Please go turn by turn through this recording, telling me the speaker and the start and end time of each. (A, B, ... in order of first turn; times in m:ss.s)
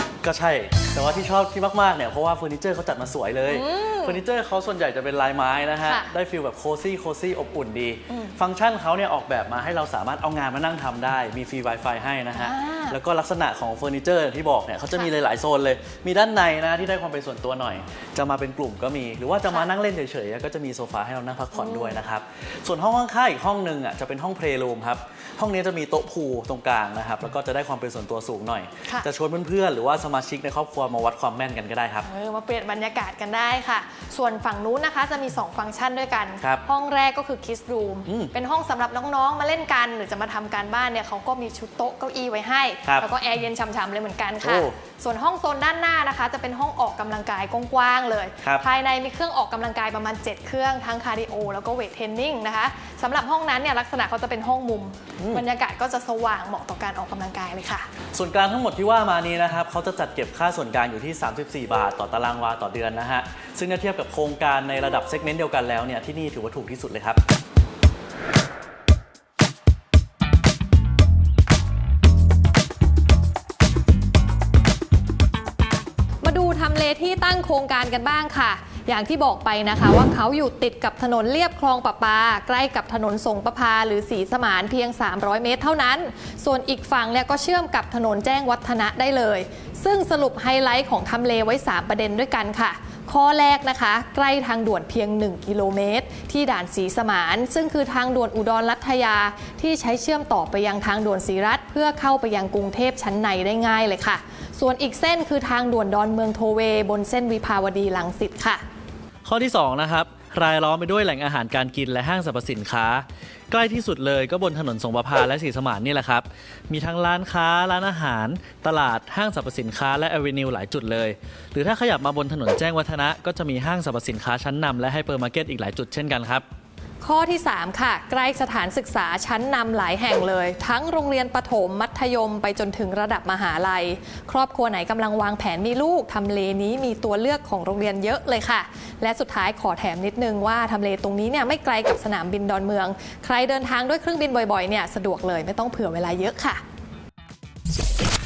0:00.2-0:32.1 A
0:03.5-0:04.2 B
0:05.8-0:06.1 B
0:08.1-0:08.4 B
0:12.3-0:13.0 B
0:21.5-0:22.0 B
0:32.0-0:57.9 B
0:38.0-0:38.3 A
0:42.8-0:43.1 A
0:44.4-0:44.8 A
0:55.2-0:55.4 A
0:58.1-1:07.2 A
1:16.2-1:48.6 B
1:49.2-2:06.4 A
2:07.0-2:26.6 B